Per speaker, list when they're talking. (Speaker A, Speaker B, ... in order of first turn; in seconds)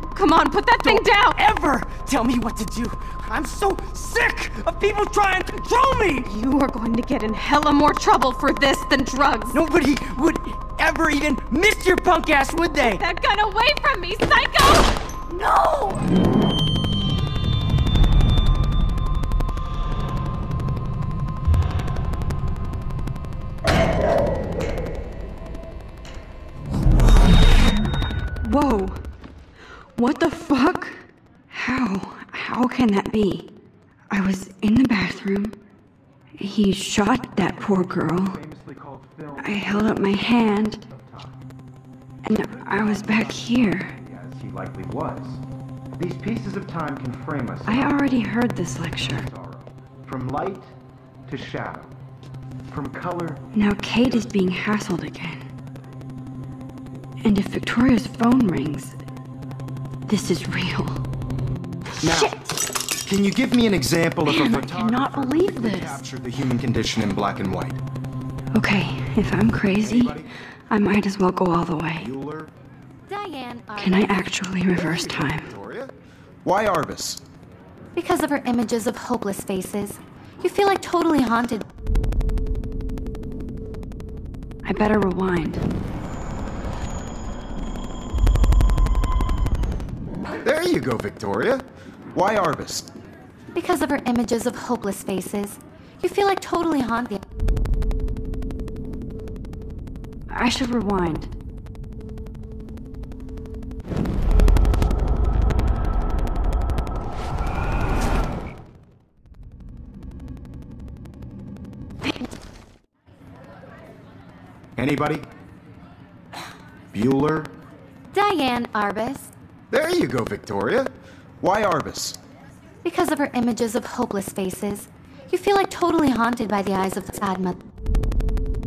Speaker A: 0.1-1.4, 6.2-9.6, 12.8-16.0
Speaker B: 0.8-6.3, 9.5-13.0
Speaker C: 28.4-29.0, 30.0-33.5, 34.1-35.6, 36.4-38.4, 39.4-40.8, 42.2-43.9, 47.6-49.3, 53.5-55.4, 57.2-59.0, 60.1-61.0, 62.1-62.5, 64.2-66.0, 68.5-72.1, 73.8-75.5, 84.6-85.6, 100.3-101.3
Speaker D: 37.4-41.5, 42.3-45.4, 46.0-48.3, 49.0-50.7, 51.3-52.0, 52.7-54.7, 62.0-67.8, 69.8-70.3, 72.0-72.5, 74.7-77.2, 90.3-92.9, 114.8-115.3, 116.9-117.5, 119.7-122.2
Speaker E: 73.1-74.3, 78.0-81.7, 93.5-97.2, 118.1-119.3, 122.8-127.6